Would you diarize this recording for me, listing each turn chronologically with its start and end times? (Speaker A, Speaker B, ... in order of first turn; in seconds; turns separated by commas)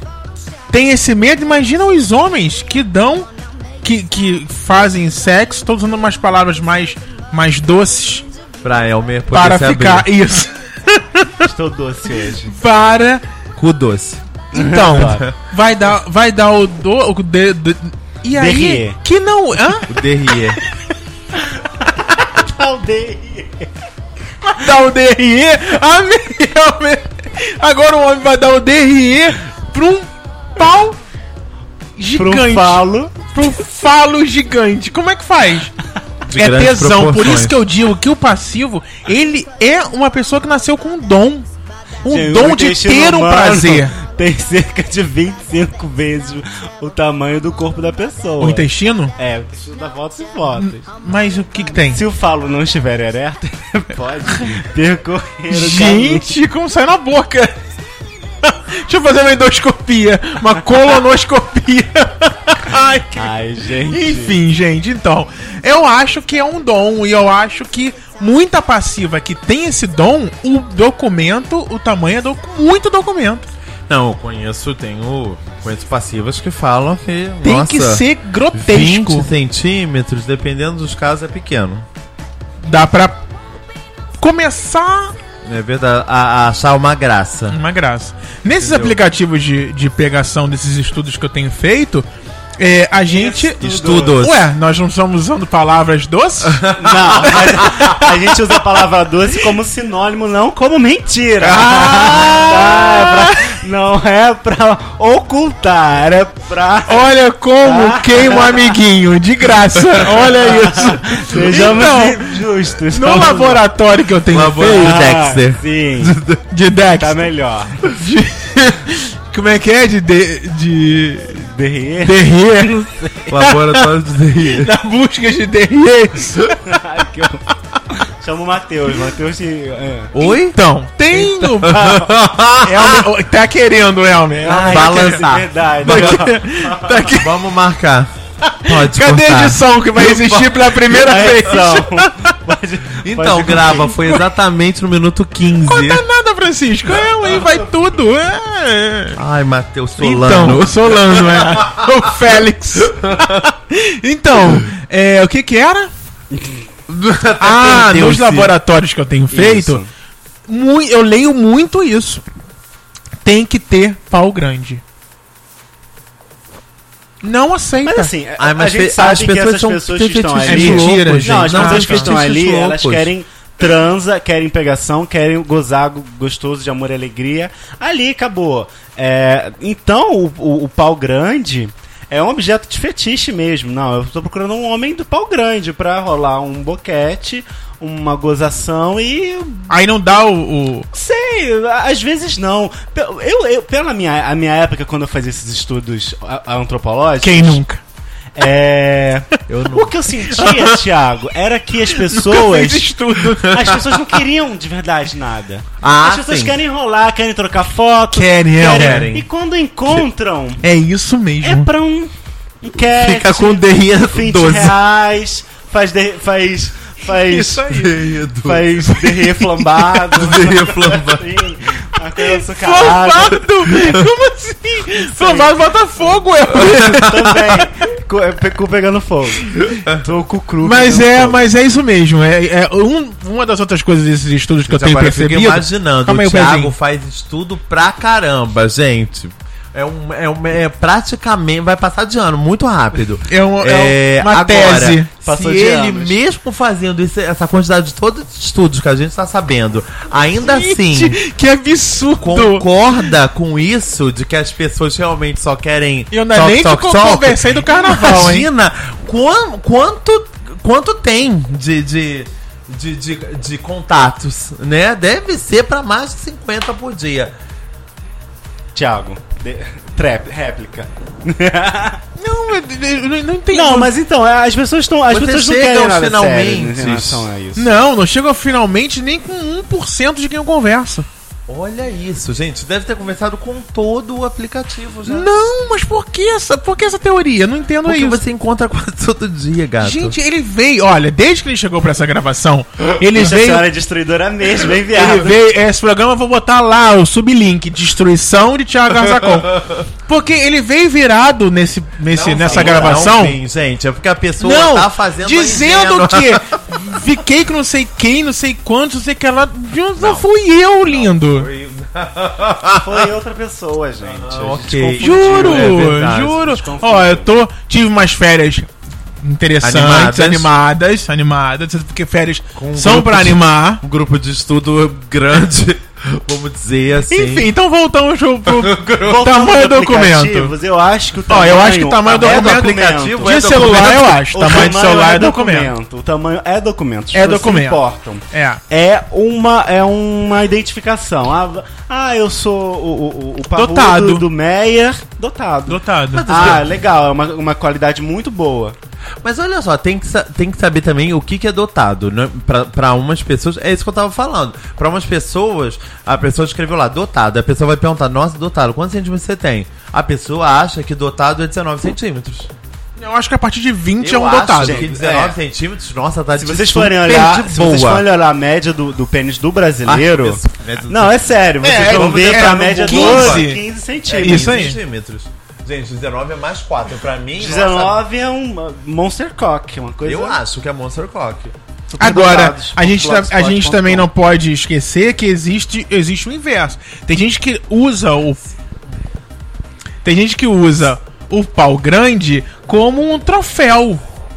Speaker A: 0.7-3.3, Speaker A: 3.8-8.2, Speaker B: 8.6-10.1, Speaker A: 9.3-11.5, Speaker C: 11.4-12.6, Speaker A: 12.5-13.2, Speaker B: 13.6-14.2, Speaker C: 14.5-15.3, Speaker A: 14.5-20.6, Speaker B: 15.0-15.3, Speaker C: 18.3-19.0, Speaker B: 19.9-20.6, Speaker C: 21.4-23.7, Speaker A: 24.4-31.0, Speaker A: 32.0-35.7, Speaker C: 32.1-33.2, Speaker B: 36.2-37.5, Speaker A: 36.3-41.5, Speaker A: 42.0-44.0, Speaker C: 42.1-50.9, Speaker A: 48.4-49.1, Speaker A: 50.6-52.0, Speaker C: 51.9-56.4, Speaker A: 55.5-57.5, Speaker A: 58.4-63.3, Speaker C: 63.1-64.4, Speaker A: 63.9-73.5, Speaker B: 73.9-81.9, Speaker A: 77.4-79.3, Speaker A: 82.6-83.2, Speaker A: 84.2-85.1, Speaker B: 85.5-87.6, Speaker A: 87.5-92.1, Speaker B: 88.6-89.0, Speaker A: 92.6-96.7, Speaker C: 93.1-94.2, Speaker B: 93.6-94.5, Speaker B: 96.4-98.0, Speaker C: 96.7-108.8, Speaker A: 97.3-98.0, Speaker A: 101.4-103.5, Speaker A: 106.9-115.1, Speaker C: 110.1-113.6, Speaker B: 114.3-116.5, Speaker C: 114.7-116.2, Speaker A: 116.5-117.3, Speaker C: 116.9-117.9, Speaker A: 117.8-121.5, Speaker C: 121.4-123.3, Speaker A: 122.0-126.8, Speaker B: 123.3-124.8, Speaker C: 126.6-130.2, Speaker B: 130.1-130.6, Speaker A: 130.5-135.2, Speaker C: 131.2-132.1, Speaker B: 131.6-133.1, Speaker C: 134.4-137.1, Speaker B: 134.4-136.3, Speaker A: 135.8-137.3, Speaker B: 137.1-138.1, Speaker A: 138.5-142.3, Speaker B: 138.6-140.8, Speaker C: 140.9-144.0, Speaker B: 143.0-146.1, Speaker A: 145.6-149.2, Speaker B: 149.2-152.1, Speaker A: 150.0-155.9, Speaker B: 152.8-153.4, Speaker B: 156.9-158.5, Speaker A: 157.4-159.8, Speaker C: 159.3-159.9, Speaker A: 160.5-162.2, Speaker A: 163.2-164.8, Speaker A: 167.2-168.1, Speaker C: 167.8-189.7, Speaker B: 168.4-173.1, Speaker A: 170.4-172.2, Speaker A: 189.7-190.9, Speaker C: 190.9-197.6, Speaker A: 197.2-197.8, Speaker C: 198.4-202.9, Speaker B: 199.5-200.0, Speaker A: 200.3-200.8, Speaker A: 201.9-203.8, Speaker C: 203.4-210.6, Speaker B: 205.8-206.6, Speaker A: 208.1-209.1, Speaker B: 208.6-209.2, Speaker A: 210.6-211.7, Speaker C: 211.4-223.5, Speaker B: 213.0-214.7, Speaker A: 217.3-217.9, Speaker B: 217.6-219.1, Speaker B: 219.9-221.3, Speaker A: 222.2-227.4, Speaker B: 223.7-224.1, Speaker C: 225.1-225.5, Speaker B: 226.5-227.1, Speaker C: 226.8-231.4, Speaker A: 230.6-236.7, Speaker B: 234.7-251.2, Speaker A: 243.3-245.1, Speaker C: 245.2-246.2, Speaker A: 250.4-253.1, Speaker B: 252.2-267.3, Speaker A: 256.1-258.5, Speaker C: 268.8-272.0, Speaker A: 272.2-273.9, Speaker C: 273.5-277.8, Speaker B: 275.1-277.3, Speaker A: 277.6-281.1, Speaker B: 281.5-285.3, Speaker A: 285.1-288.2, Speaker B: 287.9-290.2, Speaker A: 289.8-293.7, Speaker C: 293.1-295.4, Speaker A: 294.8-303.4, Speaker B: 299.1-299.8, Speaker B: 302.1-306.6, Speaker C: 302.4-303.1, Speaker A: 304.4-311.5, Speaker B: 310.0-310.3, Speaker B: 310.8-313.1, Speaker C: 312.8-317.3, Speaker B: 314.0-316.5, Speaker A: 315.0-318.7, Speaker A: 319.2-323.8, Speaker B: 319.6-320.5, Speaker B: 322.6-327.5, Speaker A: 327.1-330.5, Speaker B: 328.5-329.2, Speaker C: 329.0-348.8, Speaker A: 331.3-332.7, Speaker B: 332.1-334.2, Speaker A: 333.2-335.7, Speaker A: 337.1-338.6, Speaker A: 343.6-344.2, Speaker A: 345.7-346.6, Speaker B: 346.1-346.7, Speaker B: 349.2-362.5, Speaker A: 363.0-364.8, Speaker B: 364.0-368.0, Speaker C: 364.6-365.4, Speaker C: 366.4-374.7, Speaker B: 369.9-373.6, Speaker A: 371.6-373.6, Speaker B: 374.1-378.0, Speaker A: 374.2-374.8, Speaker C: 377.4-380.4, Speaker B: 380.0-381.5, Speaker C: 381.9-384.1, Speaker A: 382.0-388.4, Speaker A: 390.0-394.0